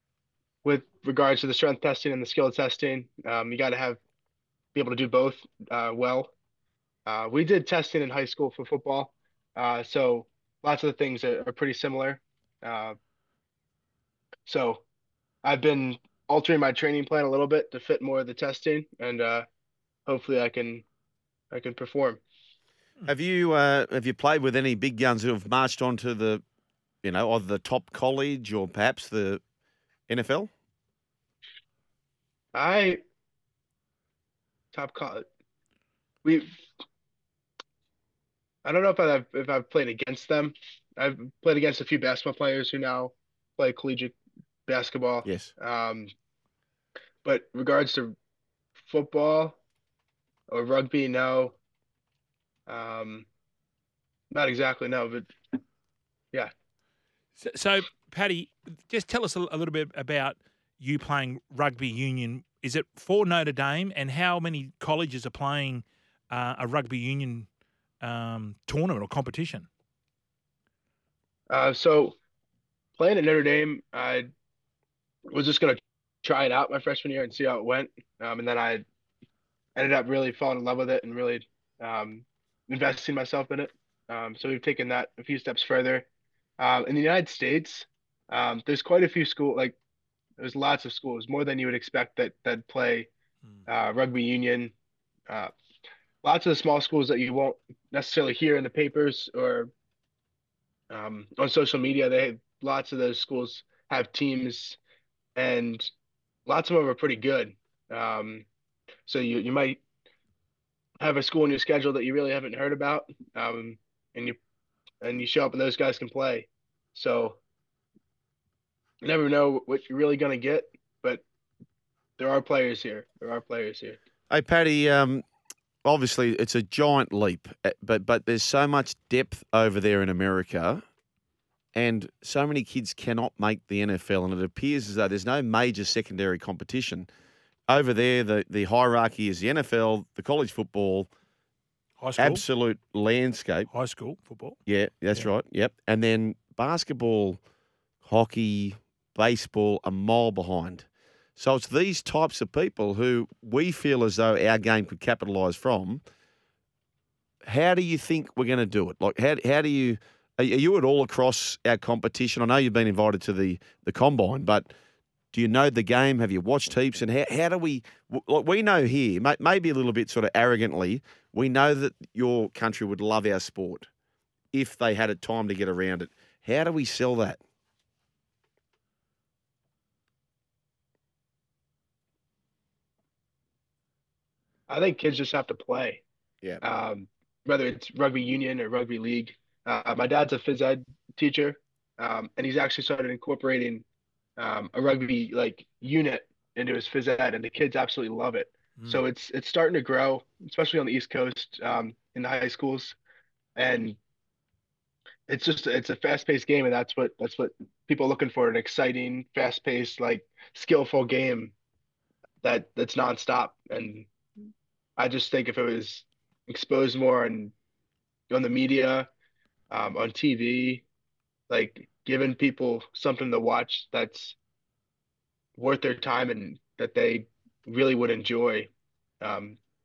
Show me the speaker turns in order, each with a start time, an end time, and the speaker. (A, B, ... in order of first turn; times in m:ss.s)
0:00.6-0:04.0 A
0:04.7-0:06.3 A
0:07.1-0:13.0 A
0:14.5-0:14.8 A
0:15.4-0:19.5 A
0:20.1-0:20.8 A
0:21.5-0:22.2 A
0:23.1-0:26.4 B
0:27.0-0:29.4 B
0:30.1-0:30.5 B
0:32.5-0:33.0 A
0:34.7-0:35.3 A
0:36.2-0:36.5 A
0:38.6-0:44.2 A
0:44.7-0:46.1 A
0:45.2-0:45.5 B
0:47.2-0:48.2 A
0:48.9-0:49.6 A
0:50.5-0:51.6 A
0:52.7-0:53.3 A
0:54.3-0:55.3 A
0:57.4-1:07.5 C
1:08.0-1:09.7 C
1:11.5-1:12.2 A
1:13.0-1:14.3 A
1:15.3-1:18.8 A
1:19.8-1:26.1 A
1:26.6-1:29.8 A
1:30.4-1:33.1 A
1:33.7-1:34.7 A
1:36.2-1:39.7 A
1:40.9-1:44.8 A
1:45.4-1:45.9 A
1:46.5-1:48.5 A
1:49.1-1:49.8 A
1:51.0-1:54.4 A
1:55.0-1:57.4 A
1:59.0-2:01.2 A
2:02.2-2:04.0 A
2:04.3-2:05.2 B
2:05.8-2:10.8 B
2:11.8-2:17.1 B
2:17.7-2:21.1 B
2:22.0-2:22.4 C
2:22.2-2:23.7 B
2:23.7-2:24.6 C
2:24.7-2:27.4 B
2:28.0-2:30.9 B
2:31.4-2:36.0 B
2:37.4-2:44.7 B
2:45.3-2:53.9 B
2:54.5-2:57.4 B
3:04.7-3:06.0 A
3:06.6-3:13.8 A
3:14.4-3:23.0 A
3:23.6-3:24.0 A
3:25.3-3:31.5 A
3:32.4-3:34.1 A
3:35.0-3:37.5 A
3:38.3-3:39.1 A
3:39.7-3:40.8 A
3:41.5-3:44.4 A
3:45.6-3:48.7 A
3:49.2-3:49.6 A